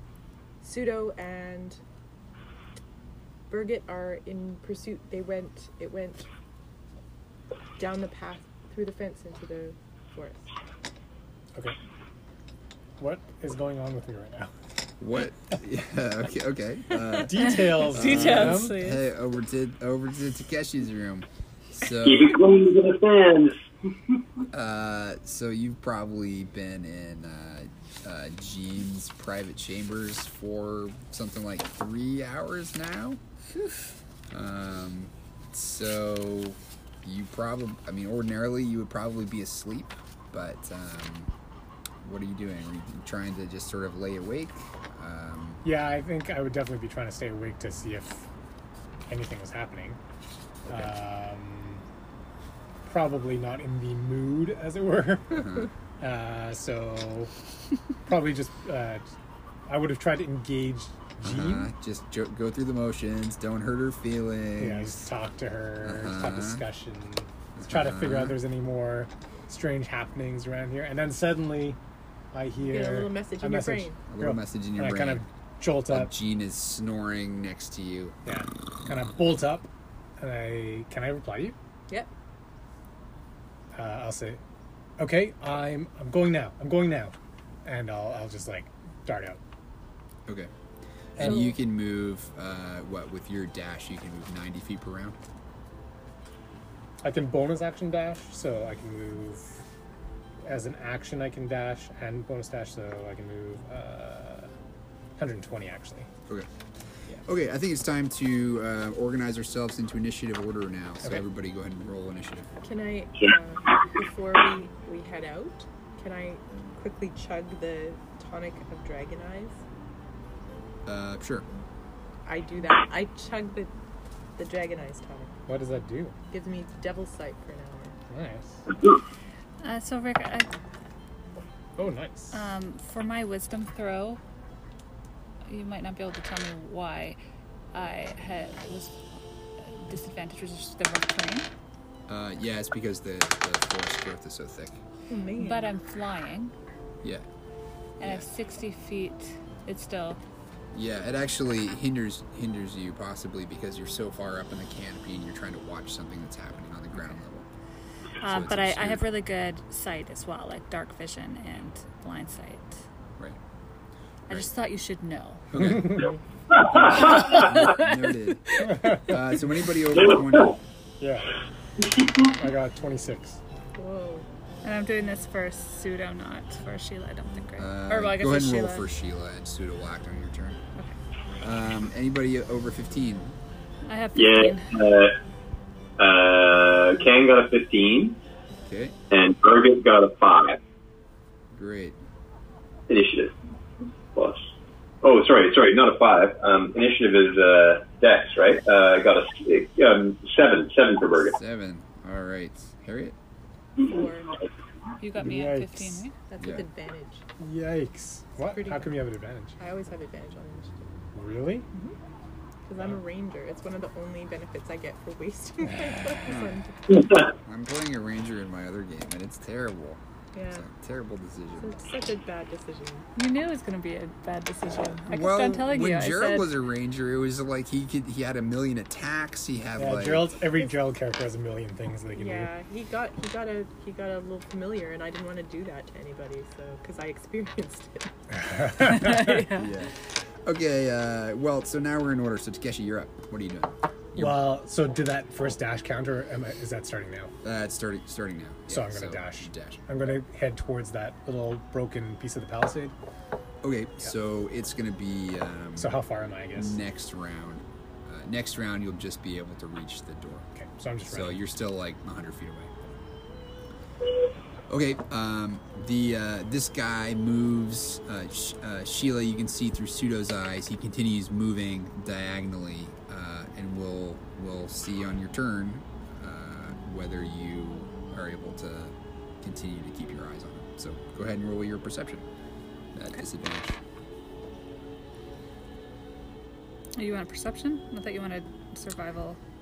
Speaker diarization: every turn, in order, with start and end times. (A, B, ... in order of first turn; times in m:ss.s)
0:00.6-0:01.8 A
0:03.5-0:06.3 A
0:07.8-0:10.5 A
0:13.0-0:14.5 B
0:15.0-0:22.3 C
0:17.3-0:18.8 B
0:17.4-0:19.0 D
0:22.0-0:23.6 E
0:24.5-0:33.2 C
0:33.6-0:33.8 D
0:34.3-0:41.3 C
0:42.0-0:45.6 C
0:45.6-0:48.3 B
0:49.1-0:50.0 B
0:50.7-0:51.8 B
0:52.8-0:55.4 B
0:55.3-0:55.7 C
0:56.0-0:57.3 B
0:58.0-0:59.1 B
0:59.7-1:01.7 B
1:01.2-1:05.0 C
1:04.6-1:11.8 B
1:05.8-1:06.6 C
1:07.6-1:08.4 C
1:12.3-1:16.1 B
1:12.6-1:14.0 A
1:14.1-1:15.2 C
1:15.9-1:18.2 C
1:18.3-1:21.6 B
1:23.7-1:24.4 B
1:25.0-1:27.1 B
1:27.6-1:29.4 B
1:30.3-1:30.5 C
1:31.2-1:31.5 B
1:31.2-1:35.2 C
1:31.2-1:31.5 A
1:37.0-1:39.6 B
1:40.4-1:44.5 B
1:45.2-1:46.1 B
1:47.2-1:52.5 C
1:52.6-1:59.6 A
2:00.9-2:01.5 C
2:02.3-2:03.7 A
2:04.4-2:05.3 A
2:05.5-2:06.2 B
2:06.3-2:08.0 A
2:08.1-2:08.6 B
2:09.6-2:10.5 D
2:11.8-2:12.4 B
2:12.3-2:14.2 D
2:15.5-2:17.2 D
2:17.7-2:19.0 D
2:19.6-2:21.5 D
2:22.1-2:24.8 C
2:25.1-2:25.7 A
2:25.4-2:26.5 D
2:28.0-2:28.3 C
2:28.0-2:30.2 D
2:30.7-2:37.5 C
2:38.2-2:42.8 D
2:38.2-2:39.0 C
2:44.3-2:45.8 D
2:45.5-2:46.1 C
2:45.6-2:46.2 B
2:46.5-2:47.4 E
2:46.7-2:50.6 C
2:46.9-2:48.9 D
2:48.6-2:49.1 B
2:50.0-2:50.5 E
2:51.0-2:51.3 B
2:52.4-2:53.4 B
2:53.8-2:54.3 A
2:54.6-2:58.9 D
2:57.6-3:00.6 C
3:01.4-3:03.4 C
3:03.8-3:04.7 D
3:04.2-3:05.2 E
3:06.0-3:08.2 E
3:08.6-3:09.0 C
3:09.1-3:10.6 E
3:11.5-3:12.0 C
3:12.9-3:13.3 E
3:14.2-3:21.4 E
3:21.4-3:23.2 C
3:23.8-3:24.4 A
3:25.0-3:26.2 D
3:25.2-3:26.0 B
3:26.3-3:27.2 A
3:26.4-3:26.7 C
3:27.4-3:29.6 B
3:28.4-3:29.0 A
3:29.6-3:30.9 A
3:31.1-3:31.7 B
3:31.7-3:32.0 A
3:32.7-3:37.1 A
3:36.2-3:36.6 C
3:36.9-3:37.2 E
3:37.3-3:41.8 C
3:40.3-3:40.6 A
3:41.6-3:43.0 A
3:43.2-3:46.5 D
3:45.1-3:50.3 C
3:49.8-3:52.5 B
3:52.2-3:58.1 A
3:58.3-3:59.4 B
3:59.2-3:59.7 D
3:59.5-4:04.4 C
4:04.2-4:07.3 B
4:07.4-4:09.9 C
4:08.7-4:12.9 B
4:13.6-4:16.0 C
4:15.8-4:16.8 B
4:16.6-4:20.5 C
4:20.6-4:21.4 B
4:21.1-4:22.7 C
4:24.7-4:42.3 C
4:43.0-4:43.8 C
4:47.0-4:49.4 D